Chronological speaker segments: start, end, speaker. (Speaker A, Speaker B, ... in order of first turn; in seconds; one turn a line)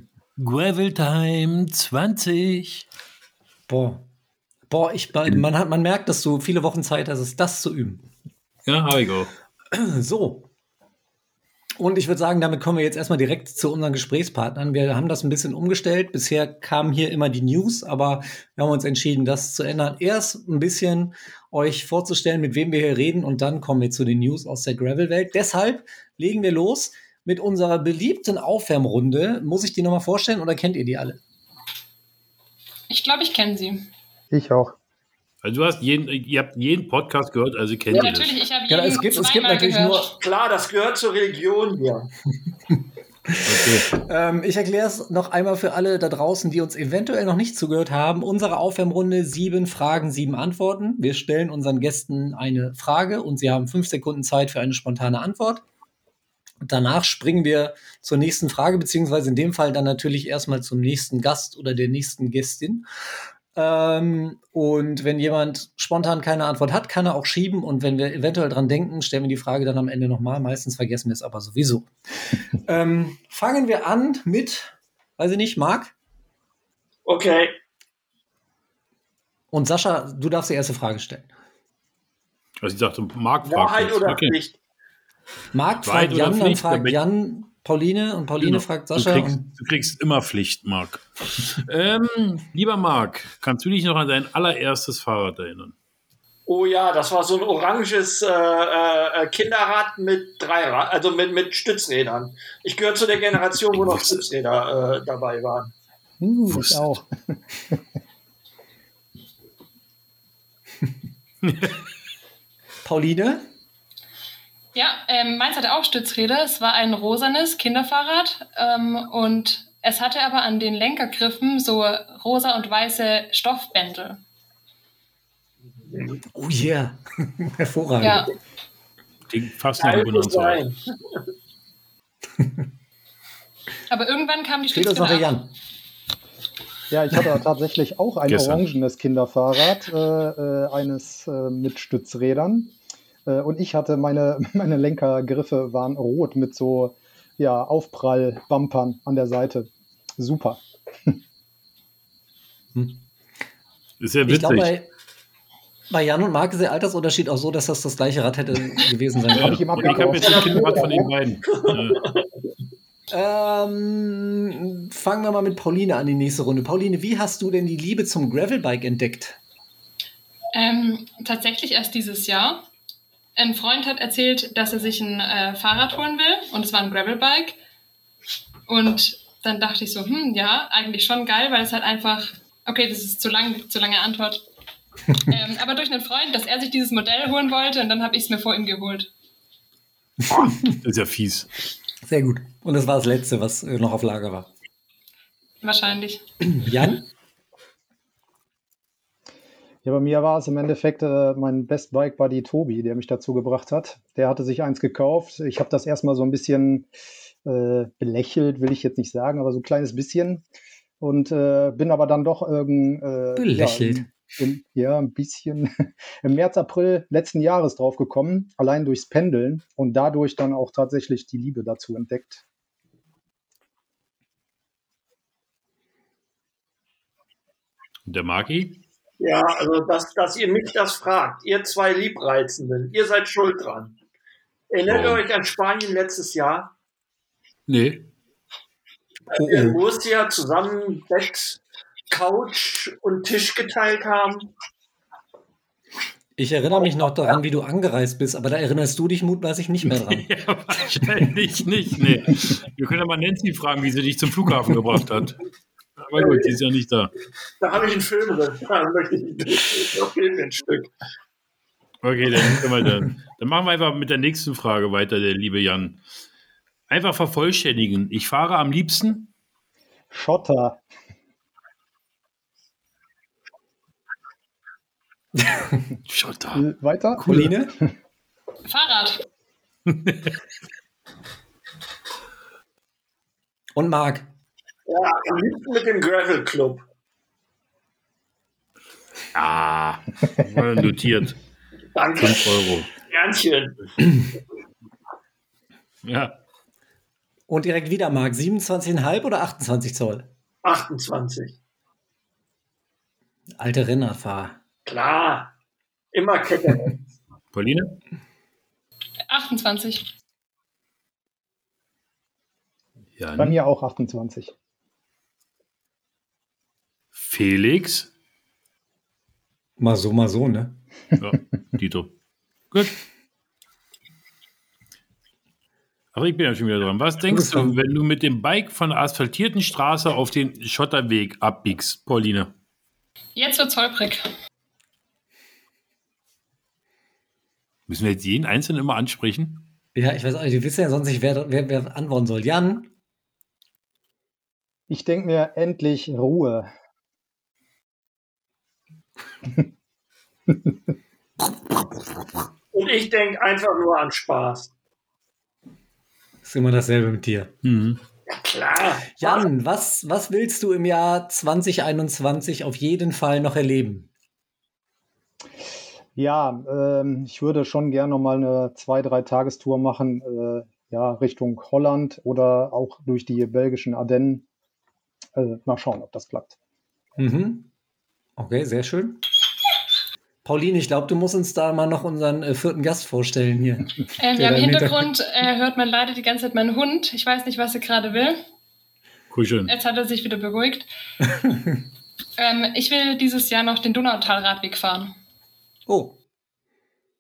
Speaker A: 0.4-2.9
Speaker B: 3.7-4.0
Speaker B: 4.7-8.1
Speaker A: 8.7-9.3
Speaker B: 9.7-10.5
Speaker B: 11.8-31.2
Speaker C: 32.9-33.9
Speaker D: 34.3-34.8
Speaker A: 35.4-38.4
Speaker C: 37.9-40.1
Speaker B: 38.7-40.2
Speaker E: 40.2-42.1
Speaker B: 43.3-55.6
Speaker A: 43.5-43.9
Speaker B: 56.6-62.9
Speaker B: 63.5-75.9
Speaker E: 77.0-77.6
Speaker B: 79.5-81.3
Speaker A: 82.6-84.4
Speaker E: 83.4-84.6
Speaker B: 85.5-89.5
Speaker A: 85.8-87.0
Speaker A: 88.4-95.8
Speaker E: 96.5-105.7
Speaker A: 103.7-104.2
Speaker D: 106.2-107.1
Speaker A: 106.5-107.0
Speaker A: 111.4-111.8
Speaker B: 112.8-113.5
Speaker C: 114.8-124.2
Speaker E: 125.9-126.2
Speaker B: 126.3-128.3
Speaker C: 128.0-128.3
Speaker A: 129.3-130.6
Speaker E: 129.8-131.2
Speaker C: 133.9-135.3
Speaker B: 134.7-135.5
Speaker D: 136.9-142.7
Speaker A: 138.3-138.6
Speaker D: 143.3-151.2
Speaker B: 152.8-153.0
Speaker A: 154.0-154.8
Speaker B: 154.3-154.9
Speaker B: 155.9-159.7
Speaker D: 159.3-160.9
Speaker A: 159.4-162.0
Speaker E: 159.8-162.3
Speaker B: 163.1-169.4
Speaker C: 170.5-172.7
Speaker C: 173.4-177.6
Speaker C: 178.7-184.4
Speaker C: 185.2-189.1
Speaker B: 190.3-190.7
Speaker A: 190.3-191.5
Speaker B: 192.0-194.5
Speaker C: 195.6-196.2
Speaker B: 196.4-197.0
Speaker D: 199.8-206.9
Speaker D: 207.4-210.4
Speaker D: 211.0-215.7
Speaker B: 213.4-214.1
Speaker D: 216.2-222.4
Speaker A: 228.1-228.8
Speaker E: 229.2-234.0
Speaker E: 234.7-236.7
Speaker A: 234.9-235.2
Speaker A: 237.7-238.1
Speaker E: 239.3-244.5
Speaker B: 239.3-239.8
Speaker B: 246.4-250.3
Speaker A: 249.9-255.4
Speaker A: 256.0-257.1
Speaker E: 256.2-256.6
Speaker E: 257.6-260.9
Speaker A: 262.0-266.0
Speaker A: 266.9-269.3
Speaker D: 270.1-270.8
Speaker B: 275.4-275.8
Speaker A: 276.1-276.6
Speaker D: 276.6-277.9
Speaker B: 277.2-277.7
Speaker C: 278.7-279.2
Speaker A: 279.9-280.3
Speaker B: 283.8-284.3
Speaker E: 284.9-286.8
Speaker A: 289.3-291.4
Speaker E: 291.9-293.9
Speaker A: 292.2-292.9
Speaker A: 296.0-296.3
Speaker B: 297.5-300.3
Speaker E: 300.6-301.6
Speaker B: 303.6-304.6
Speaker E: 304.9-305.5
Speaker E: 306.1-306.9
Speaker A: 307.5-308.0
Speaker C: 309.3-310.0
Speaker A: 313.2-313.6
Speaker D: 313.4-314.5
Speaker A: 317.1-318.1
Speaker B: 319.8-320.8
Speaker A: 321.2-322.1
Speaker A: 322.7-323.0
Speaker A: 326.1-332.5
Speaker B: 327.3-327.8
Speaker C: 333.4-334.3
Speaker A: 337.9-339.7
Speaker B: 339.9-342.9
Speaker D: 344.9-346.7
Speaker E: 352.7-354.7
Speaker B: 356.4-357.5
Speaker A: 357.6-358.0
Speaker E: 358.3-359.5
Speaker B: 359.2-364.1
Speaker D: 366.2-374.5
Speaker D: 375.4-376.6
Speaker B: 377.2-377.7
Speaker B: 378.4-379.2
Speaker B: 380.4-385.1
Speaker C: 384.2-388.4
Speaker A: 389.3-389.7
Speaker C: 389.7-390.9
Speaker B: 391.2-391.8
Speaker C: 392.4-395.1
Speaker B: 395.9-396.2